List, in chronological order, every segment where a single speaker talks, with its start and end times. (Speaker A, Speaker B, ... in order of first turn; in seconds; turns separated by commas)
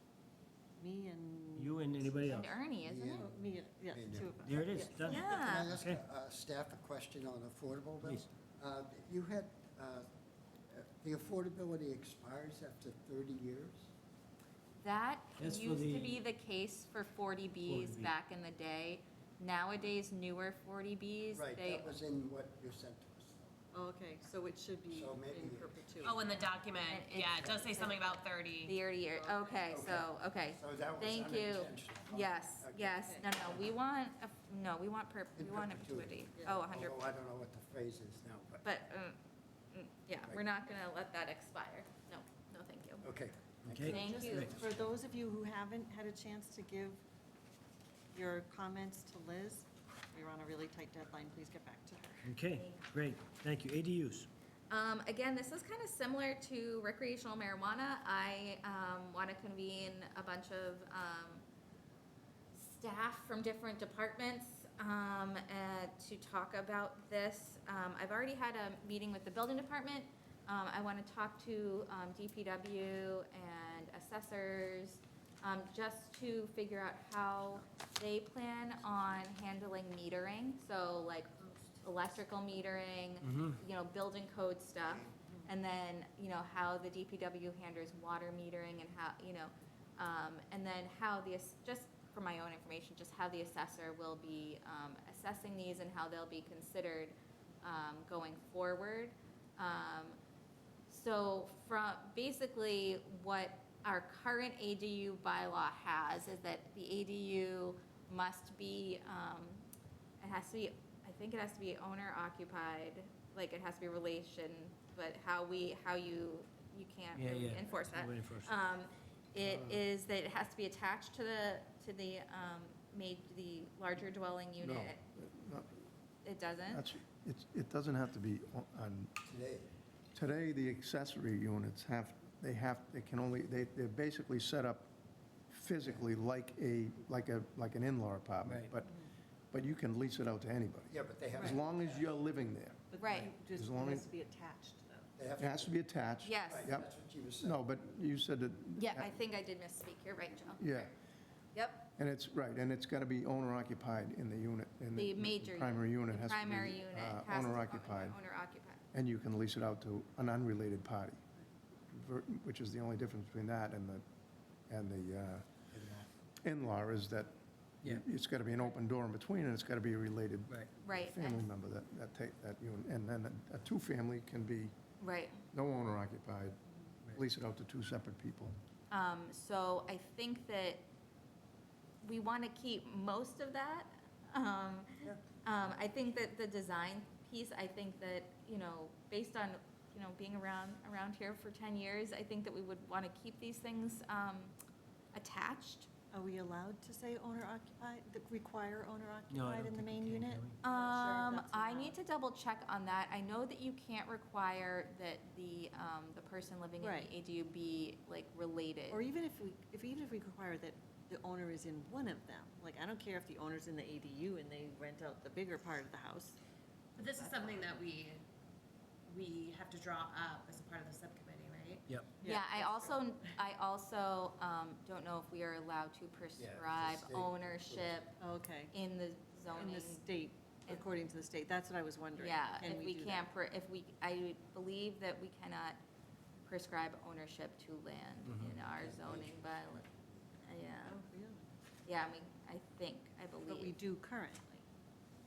Speaker A: 0.8-2.1, Speaker B: 1.6-2.6, Speaker C: 2.2-3.3, Speaker D: 2.8-10.1, Speaker A: 3.2-5.3, Speaker B: 4.4-6.0, Speaker C: 5.0-5.7, Speaker B: 8.0-8.3, Speaker D: 10.7-13.9, Speaker C: 14.8-21.9, Speaker B: 15.4-16.2, Speaker B: 17.6-18.1, Speaker D: 21.3-23.5, Speaker A: 23.7-26.2, Speaker D: 24.9-25.8, Speaker E: 26.0-28.8, Speaker C: 26.8-37.0, Speaker A: 29.2-29.6, Speaker D: 29.7-33.6, Speaker D: 35.4-38.6, Speaker C: 38.6-39.2, Speaker C: 39.7-43.1, Speaker D: 43.0-45.0, Speaker B: 43.7-44.5, Speaker C: 43.9-44.5, Speaker A: 44.2-47.0, Speaker A: 48.1-52.3, Speaker B: 52.2-54.3, Speaker C: 52.5-52.9, Speaker C: 54.7-61.4, Speaker C: 62.5-100.2, Speaker B: 83.2-83.6, Speaker C: 100.9-109.7, Speaker C: 110.2-125.0, Speaker B: 117.1-118.5, Speaker F: 119.4-119.8, Speaker F: 124.6-125.9, Speaker C: 126.2-126.8, Speaker F: 126.7-129.1, Speaker D: 129.2-129.7, Speaker F: 130.1-134.9, Speaker F: 135.5-138.9, Speaker B: 138.4-138.7, Speaker F: 139.5-144.1, Speaker D: 140.9-142.1, Speaker A: 141.3-141.6, Speaker A: 142.9-145.1, Speaker C: 143.0-143.3, Speaker D: 145.2-145.8, Speaker F: 145.4-146.9, Speaker C: 146.2-146.8, Speaker D: 146.5-147.6, Speaker F: 147.4-149.2, Speaker C: 148.8-150.9, Speaker F: 150.6-150.9, Speaker C: 151.5-151.9, Speaker F: 152.0-158.2, Speaker C: 154.9-158.8, Speaker F: 158.9-161.2, Speaker F: 161.9-164.0, Speaker F: 164.7-165.5, Speaker D: 165.7-166.1, Speaker F: 166.4-167.3, Speaker F: 167.8-174.7, Speaker C: 170.8-171.4, Speaker C: 175.0-175.4, Speaker F: 175.5-176.6, Speaker F: 177.1-178.5, Speaker C: 178.9-180.8, Speaker C: 182.0-194.5, Speaker C: 195.1-195.9, Speaker A: 196.1-202.0, Speaker B: 199.3-200.6, Speaker C: 200.6-209.0, Speaker A: 206.8-207.1, Speaker A: 208.9-216.4, Speaker E: 216.9-218.2, Speaker E: 219.1-221.9, Speaker A: 222.2-223.3, Speaker C: 222.2-228.2, Speaker D: 226.4-228.0, Speaker A: 228.2-228.7, Speaker C: 228.7-230.1, Speaker A: 229.5-233.3, Speaker C: 232.2-235.8, Speaker C: 236.4-239.8, Speaker B: 238.3-238.6, Speaker D: 238.7-240.4, Speaker C: 240.4-241.0, Speaker A: 240.8-241.5, Speaker C: 241.8-243.7, Speaker A: 243.4-244.6